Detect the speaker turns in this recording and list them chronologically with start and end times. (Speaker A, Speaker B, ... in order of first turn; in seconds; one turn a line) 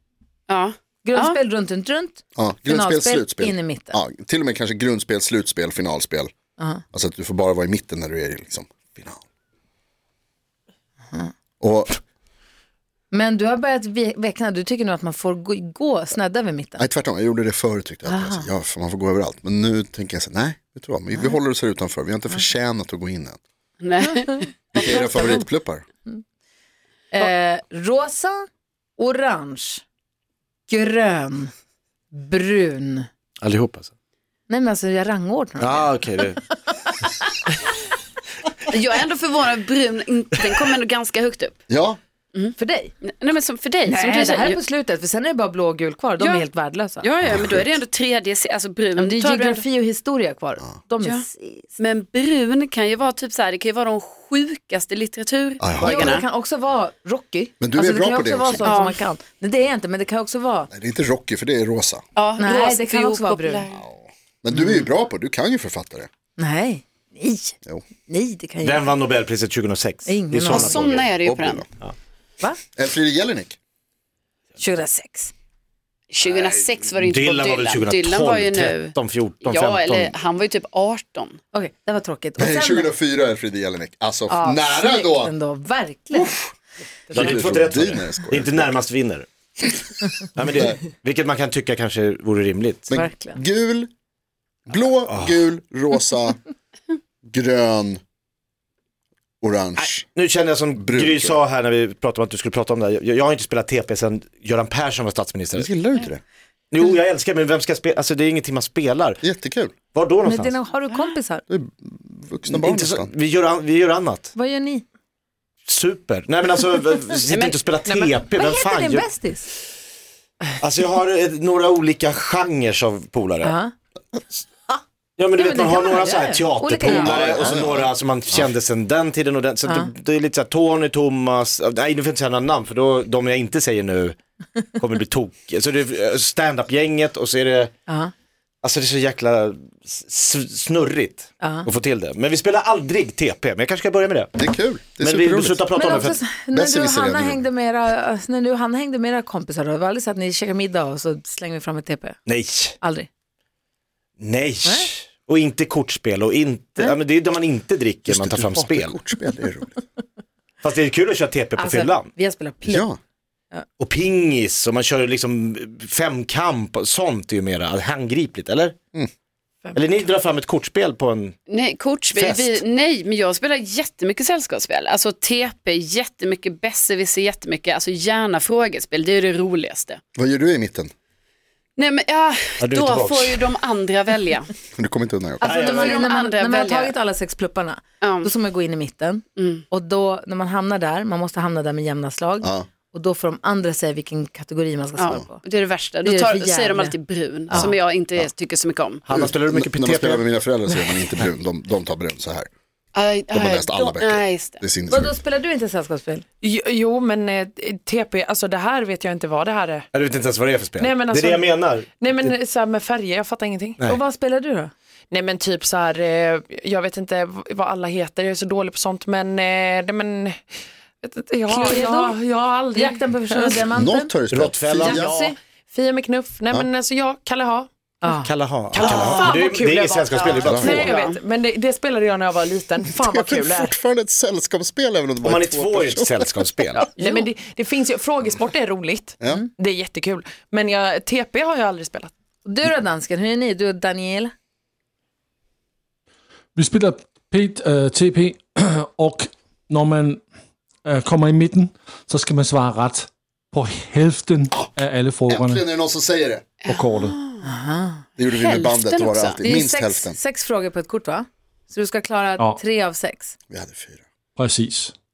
Speaker A: 0.5-1.4
Speaker B: 1.0-4.0
Speaker C: 2.4-6.3
Speaker B: 6.6-6.8
Speaker C: 6.9-9.2
Speaker C: 11.6-12.0
Speaker B: 13.1-16.9
Speaker C: 16.8-23.4
Speaker B: 18.1-18.5
Speaker A: 23.8-24.6
Speaker C: 24.7-25.8
Speaker B: 24.8-25.4
Speaker B: 27.1-28.5
Speaker B: 29.0-29.8
Speaker B: 30.7-31.5
Speaker B: 32.1-33.1
Speaker D: 33.4-33.9
Speaker B: 34.5-36.0
Speaker D: 35.6-36.4
Speaker A: 38.7-41.6
Speaker C: 41.7-42.0
Speaker A: 42.3-44.6
Speaker B: 42.6-42.9
Speaker B: 43.9-47.1
Speaker A: 46.2-46.5
Speaker A: 47.0-49.6
Speaker C: 47.2-47.8
Speaker B: 49.0-51.7
Speaker A: 51.8-56.2
Speaker C: 55.6-56.1
Speaker B: 55.8-60.7
Speaker C: 57.6-58.8
Speaker A: 58.6-59.0
Speaker C: 60.7-62.0
Speaker A: 62.2-63.8
Speaker B: 62.4-63.6
Speaker C: 63.7-66.1
Speaker B: 64.5-64.9
Speaker B: 66.4-68.9
Speaker D: 68.6-71.0
Speaker B: 70.1-70.8
Speaker C: 70.4-71.7
Speaker A: 70.6-71.7
Speaker C: 72.8-73.6
Speaker B: 74.6-75.3
Speaker A: 76.1-81.4
Speaker D: 77.0-80.2
Speaker B: 81.5-82.9
Speaker C: 82.4-85.3
Speaker B: 84.3-86.3
Speaker C: 86.1-86.5
Speaker C: 87.1-88.7
Speaker D: 87.1-89.3
Speaker C: 89.6-90.8
Speaker D: 90.4-92.9
Speaker C: 92.9-93.9
Speaker B: 92.9-93.4
Speaker C: 94.7-96.4
Speaker D: 95.1-95.5
Speaker C: 97.3-98.0
Speaker C: 99.4-100.0
Speaker D: 99.8-105.7
Speaker C: 100.8-101.4
Speaker C: 105.5-106.2
Speaker D: 106.7-109.2
Speaker C: 109.2-109.7
Speaker D: 109.9-110.6
Speaker B: 110.2-111.5
Speaker C: 111.5-113.1
Speaker D: 112.5-114.3
Speaker B: 114.3-114.8
Speaker D: 115.7-119.1
Speaker A: 117.3-117.6
Speaker E: 117.8-118.2
Speaker B: 118.3-119.5
Speaker D: 120.6-123.6
Speaker B: 123.4-123.7
Speaker D: 125.2-134.2
Speaker B: 125.3-127.5
Speaker C: 126.8-128.5
Speaker B: 129.7-129.9
Speaker D: 134.8-137.7
Speaker B: 137.9-138.1
Speaker D: 138.6-144.3
Speaker B: 141.4-141.7
Speaker C: 144.4-145.7
Speaker D: 145.0-146.2
Speaker B: 145.8-152.2
Speaker C: 146.5-147.4
Speaker D: 152.3-152.8
Speaker B: 152.8-153.1
Speaker D: 154.2-159.0
Speaker C: 158.1-159.8
Speaker D: 160.6-162.1
Speaker B: 161.6-162.9
Speaker C: 162.7-163.0
Speaker D: 163.8-168.8
Speaker E: 169.7-169.9
Speaker D: 169.8-171.4
Speaker A: 171.5-180.0
Speaker D: 172.1-172.6
Speaker C: 180.2-180.9
Speaker A: 181.8-184.5
Speaker D: 182.6-183.5
Speaker C: 184.8-185.5
Speaker B: 185.4-195.4
Speaker D: 185.4-185.9
Speaker A: 185.6-186.9
Speaker A: 188.0-188.3
Speaker A: 189.4-189.6
Speaker A: 195.0-199.0
Speaker B: 196.0-197.0
Speaker C: 197.5-198.3
Speaker D: 199.1-200.3
Speaker C: 199.1-202.5
Speaker A: 202.9-204.6
Speaker C: 203.3-205.2
Speaker B: 204.9-206.2
Speaker E: 206.4-209.9
Speaker D: 209.9-212.3
Speaker E: 210.8-213.8
Speaker B: 213.8-214.7
Speaker E: 215.1-220.4
Speaker E: 221.0-223.6
Speaker B: 221.5-222.2
Speaker B: 222.8-224.1
Speaker C: 223.7-225.1
Speaker D: 224.3-225.0
Speaker E: 224.8-227.7
Speaker B: 224.9-225.3
Speaker B: 228.0-228.3
Speaker D: 228.2-230.9
Speaker E: 228.7-233.7
Speaker C: 228.8-229.3
Speaker A: 230.1-231.2
Speaker C: 230.4-230.9
Speaker C: 232.9-236.5
Speaker D: 235.2-236.9
Speaker E: 237.0-242.1
Speaker A: 237.0-237.2
Speaker B: 242.4-244.3
Speaker F: 246.6-250.2
Speaker F: 250.8-255.6
Speaker C: 255.3-256.5
Speaker F: 256.7-257.2
Speaker A: 256.7-257.3
Speaker B: 257.4-258.0
Speaker C: 258.2-260.2
Speaker A: 258.2-259.4
Speaker B: 259.4-263.3
Speaker C: 263.5-264.0
Speaker F: 264.4-264.9